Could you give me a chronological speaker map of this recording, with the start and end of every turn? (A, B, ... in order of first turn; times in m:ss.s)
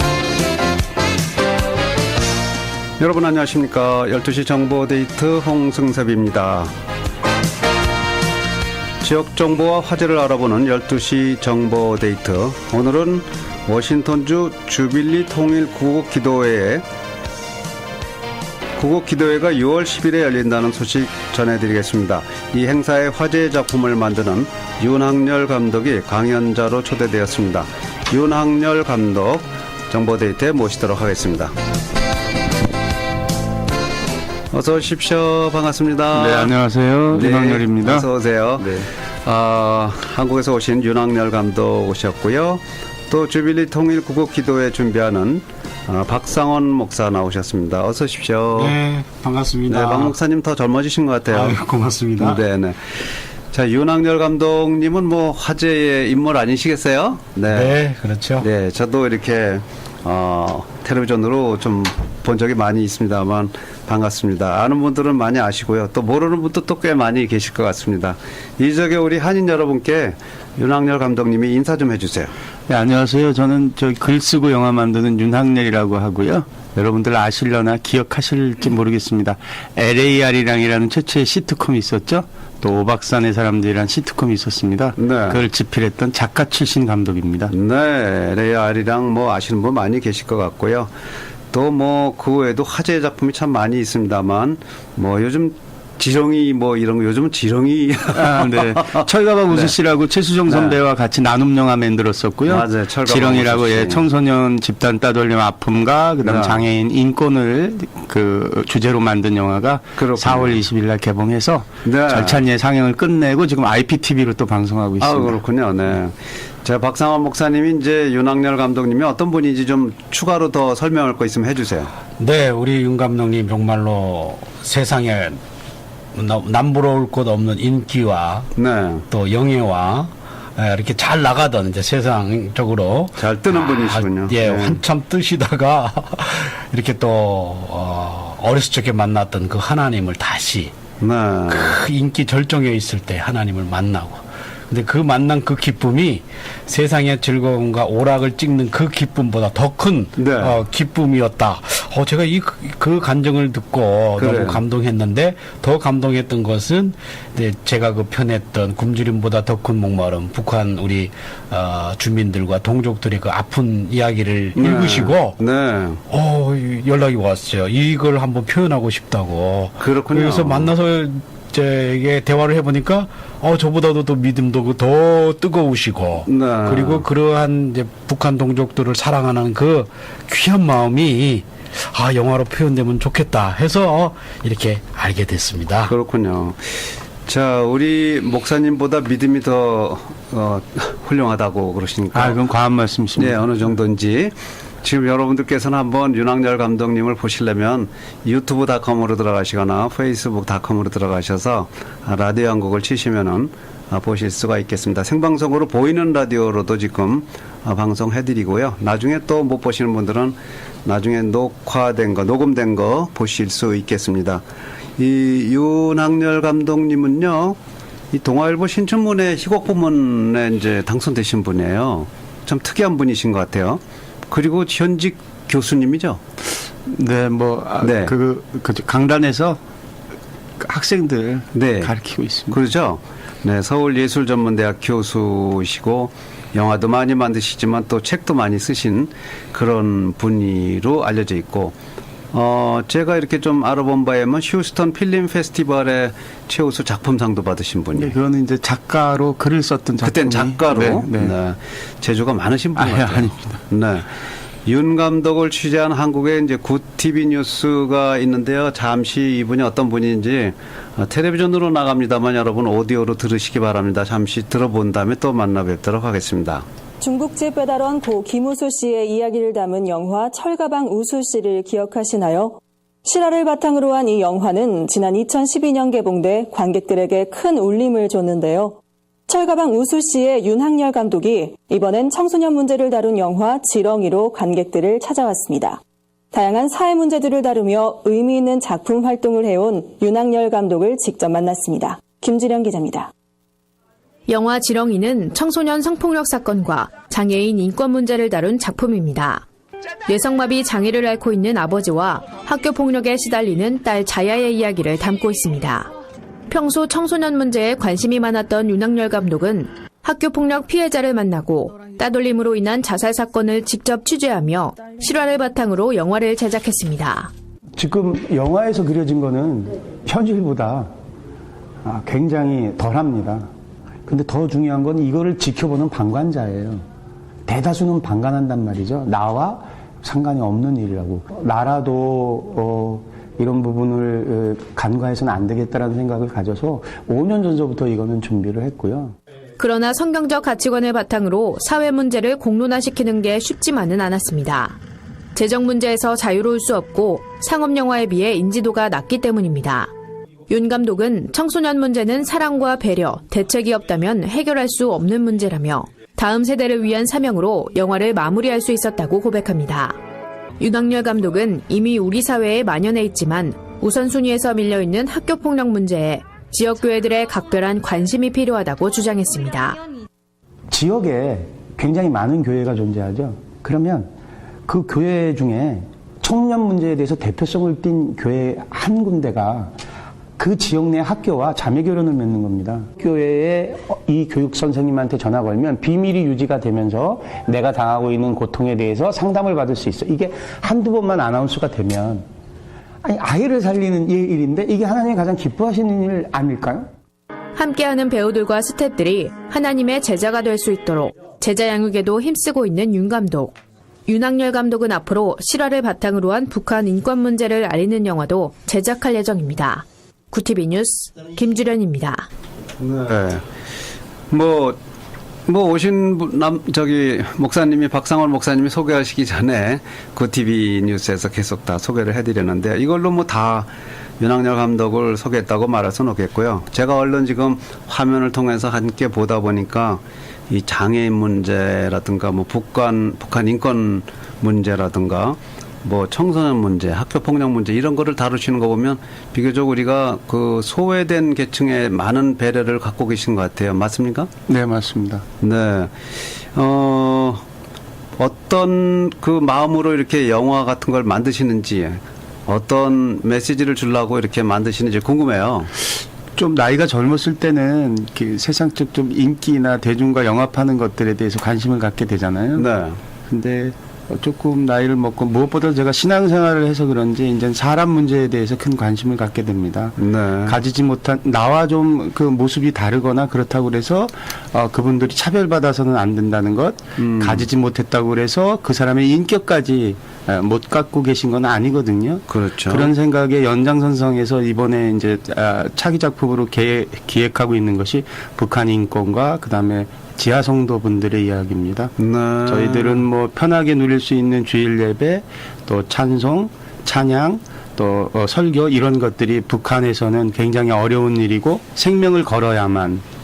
0:03.0-0:06.7 A
0:09.0-0:16.8 A
0:18.8-0:31.5 A
0:34.5-0:36.5 A
0:36.1-0:38.9 B
0:37.1-0:48.8 A
0:48.6-0:50.2 C
0:49.7-0:51.6 A
0:51.3-0:52.4 C
0:52.2-0:53.0 A
0:53.5-0:57.8 A
0:57.5-0:58.5 C
0:58.4-1:12.3 A
1:12.7-1:27.5 B
1:25.0-1:25.4 A
1:27.5-1:30.9 A
1:31.5-1:39.7 A
1:38.1-1:55.4 B
1:40.5-1:40.8 A
1:42.5-1:44.0 A
1:46.2-1:46.6 A
1:50.0-1:50.6 A
1:51.8-1:52.4 A
1:55.0-2:01.9 A
2:02.2-2:05.4 C
2:06.2-2:08.5 C
2:08.6-2:09.0 A
2:09.1-2:20.7 C
2:13.2-2:14.8 A
2:21.0-2:21.8 A
2:21.5-2:45.4 C
2:30.2-2:30.6 A
2:34.2-2:34.6 A
2:44.6-2:46.0 A
2:46.1-3:05.9 C
2:49.8-2:50.7 A
2:56.3-2:57.0 A
3:05.9-3:12.4 A
3:12.1-3:13.4 B
3:13.2-3:34.4 A
3:35.0-3:37.6 A
3:38.1-3:46.2 A
3:46.9-3:49.6 B
3:47.8-3:48.1 A
3:50.6-3:52.6 B
3:51.5-3:51.9 A
3:52.5-4:01.8 A
4:02.3-4:08.1 A
4:08.0-4:11.4 B
4:10.0-4:14.1 A
4:12.8-4:13.6 B
4:14.7-4:26.7 A
4:27.0-4:45.8 D
4:46.3-4:53.1 D
4:54.3-4:59.4 E
5:00.1-5:05.9 E
5:06.5-5:17.3 E
5:17.8-5:20.9 B
5:21.8-5:23.5 B
5:24.1-5:26.8 B
5:27.5-5:39.2 B
5:39.6-5:44.8 E
5:45.4-5:49.9 E
5:50.5-6:00.0 E
6:00.6-6:09.8 E
6:10.7-6:14.1 B
6:14.7-6:19.8 B
6:20.4-6:32.2 B
6:33.0-6:36.9 B
6:37.6-6:43.6 E
6:44.1-6:52.3 E
6:52.8-6:53.4 A
6:54.3-6:54.8 A
6:55.5-7:24.3 A
7:24.5-7:25.2 B
7:25.4-7:26.0 A
7:26.5-7:27.4 A
7:28.2-7:35.7 A
7:36.4-7:42.7 B
7:42.6-7:43.0 A
7:43.3-8:11.9 B
7:50.0-7:50.6 A
7:57.0-7:57.5 A
8:02.3-8:02.9 A
8:12.0-8:13.0 A
8:12.5-8:23.0 B